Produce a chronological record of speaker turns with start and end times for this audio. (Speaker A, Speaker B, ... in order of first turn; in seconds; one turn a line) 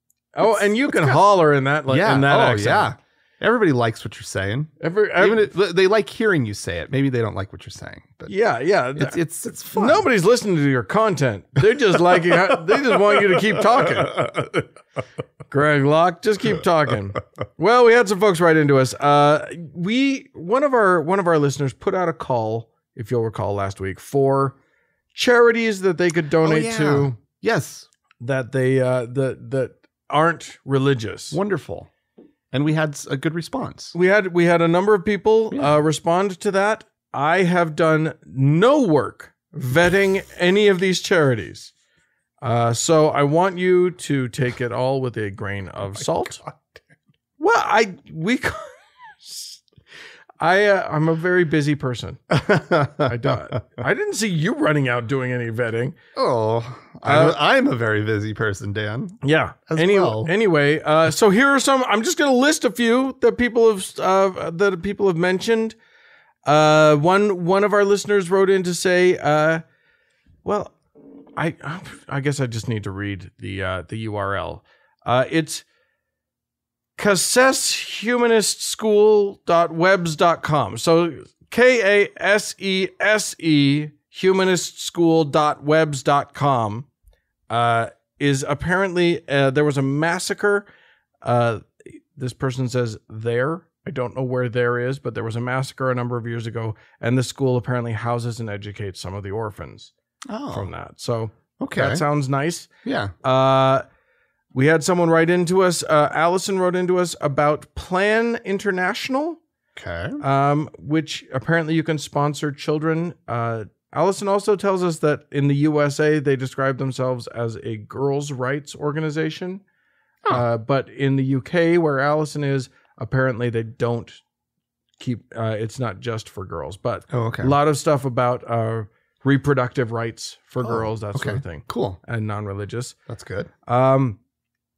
Speaker A: 0.3-2.9
Speaker B: 0.4-1.2
Speaker B: 1.9-8.3
Speaker A: 4.8-5.5
Speaker A: 8.3-9.2
Speaker B: 8.9-10.1
Speaker A: 9.7-14.4
Speaker B: 12.3-14.6
Speaker A: 15.5-24.6
Speaker A: 25.1-27.2
Speaker B: 26.4-27.9
Speaker A: 28.2-31.4
Speaker B: 31.3-31.9
Speaker B: 32.5-34.0
Speaker A: 33.9-41.7
Speaker A: 42.4-46.4
Speaker B: 46.1-46.8
Speaker A: 47.4-49.6
Speaker A: 50.4-52.2
Speaker B: 52.3-53.4
Speaker A: 53.0-56.0
Speaker B: 56.1-60.3
Speaker A: 57.0-57.4
Speaker A: 59.2-65.8
Speaker A: 66.5-69.6
Speaker A: 70.5-70.8
Speaker A: 71.4-75.7
Speaker A: 77.0-86.9
Speaker A: 87.5-90.7
Speaker A: 91.2-99.9
Speaker B: 100.3-100.7
Speaker A: 100.5-102.7
Speaker B: 101.6-102.0
Speaker B: 102.8-103.1
Speaker A: 103.2-103.8
Speaker A: 104.5-109.4
Speaker B: 109.8-110.2
Speaker A: 110.2-119.6
Speaker A: 120.3-124.2
Speaker A: 125.0-133.0
Speaker B: 127.1-127.5
Speaker B: 130.6-132.0
Speaker B: 133.1-133.5
Speaker A: 133.7-134.2